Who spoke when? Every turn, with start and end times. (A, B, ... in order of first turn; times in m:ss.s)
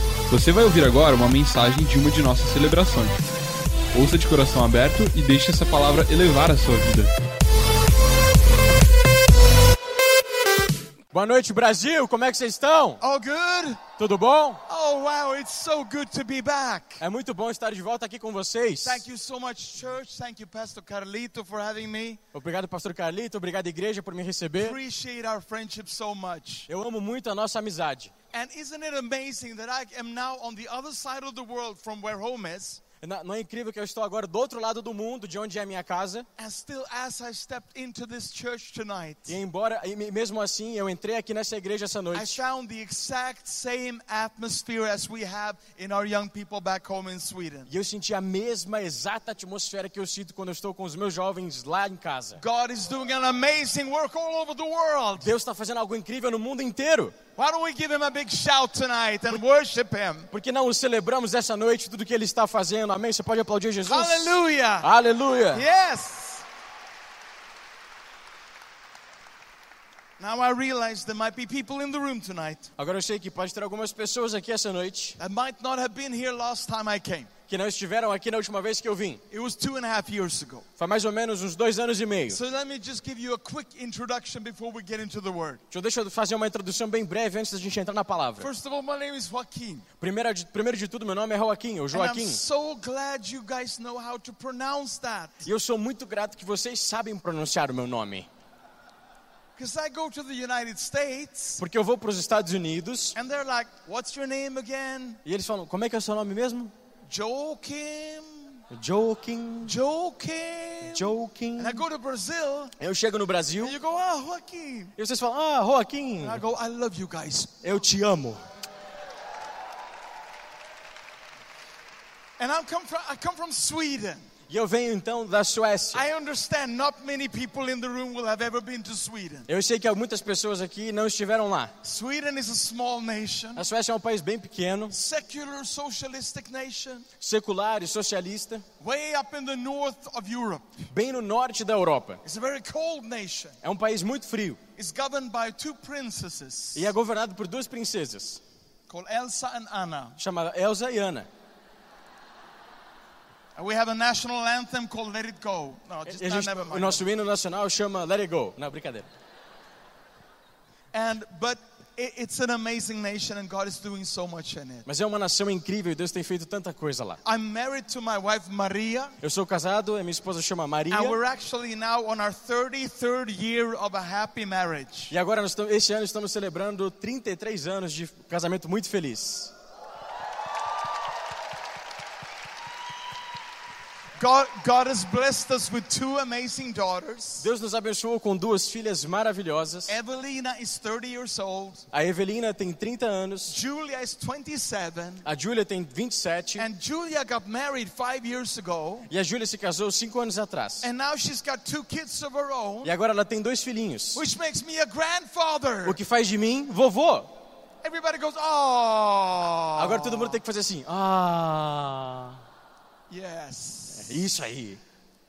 0:00.3-0:03.2 A
0:03.9-0:07.1 A
0:11.1-0:13.0 B
0:13.0-0:13.8 C
0:14.0-0:14.6 B
0:14.7-0:17.0 C
0:17.0-0:19.0 B
0:18.8-0:22.2 C
0:22.3-0:24.8 B
0:24.6-0:26.7 C
0:26.7-0:28.1 B
0:28.3-0:32.8 C
0:33.0-0:36.3 B
0:36.4-0:39.4 C
0:39.3-0:42.4 B
0:42.1-0:47.7 C
0:47.7-0:52.4 B
0:52.4-0:55.3 C
0:55.2-0:57.2 B
0:57.4-1:00.3 C
1:00.3-1:05.6 B
1:03.8-1:04.9 C
1:05.5-1:06.4 C
1:10.2-1:12.7 C
1:12.8-1:15.2 B
1:15.2-1:17.3 C
1:17.5-1:19.2 B
1:19.3-1:20.6 C
1:20.8-1:22.4 B
1:22.3-1:25.6 C
1:25.7-1:28.5 B
1:28.4-1:29.8 C
1:30.0-1:32.4 B
1:31.9-1:35.4 C
1:35.4-1:38.3 B
1:39.6-1:41.6 C
1:41.6-1:43.1 B
1:43.1-1:45.2 C
1:45.2-1:46.7 B
1:47.1-1:48.6 C
1:48.7-1:49.8 B
1:49.6-1:52.7 C
1:50.9-1:51.8 B
1:52.8-1:53.7 B
1:53.6-1:54.9 C
1:55.0-1:56.4 B
1:56.2-1:57.7 C
1:57.6-1:58.4 B
2:02.4-2:04.2 C
2:04.5-2:06.1 B
2:05.9-2:09.5 C
2:09.5-2:11.7 B
2:11.8-2:13.6 C
2:13.6-2:14.9 B
2:14.9-2:17.0 C
2:17.2-2:18.6 B
2:18.8-2:20.7 C
2:20.9-2:22.2 B
2:22.2-2:23.6 C
2:23.6-2:24.6 B
2:24.8-2:26.9 C
2:26.7-2:28.4 B
2:28.9-2:30.2 C
2:30.2-2:31.3 B
2:33.6-2:37.1 C
2:36.1-2:39.1 B
2:40.9-2:44.8 C
2:44.8-2:47.2 B
2:47.2-2:49.1 C
2:49.2-2:51.2 B
2:50.9-2:55.1 C
2:55.1-2:59.5 B
3:04.2-3:07.5 C
3:07.4-3:09.9 B
3:09.9-3:11.8 C
3:11.9-3:13.5 B
3:13.4-3:15.2 C
3:15.2-3:16.6 B
3:16.6-3:19.1 C
3:19.1-3:20.9 B
3:20.8-3:22.9 C
3:22.8-3:24.2 B
3:24.1-3:26.0 C
3:25.8-3:27.3 B
3:27.8-3:30.4 C
3:29.8-3:32.4 B
3:33.1-3:34.2 C
3:33.9-3:34.8 B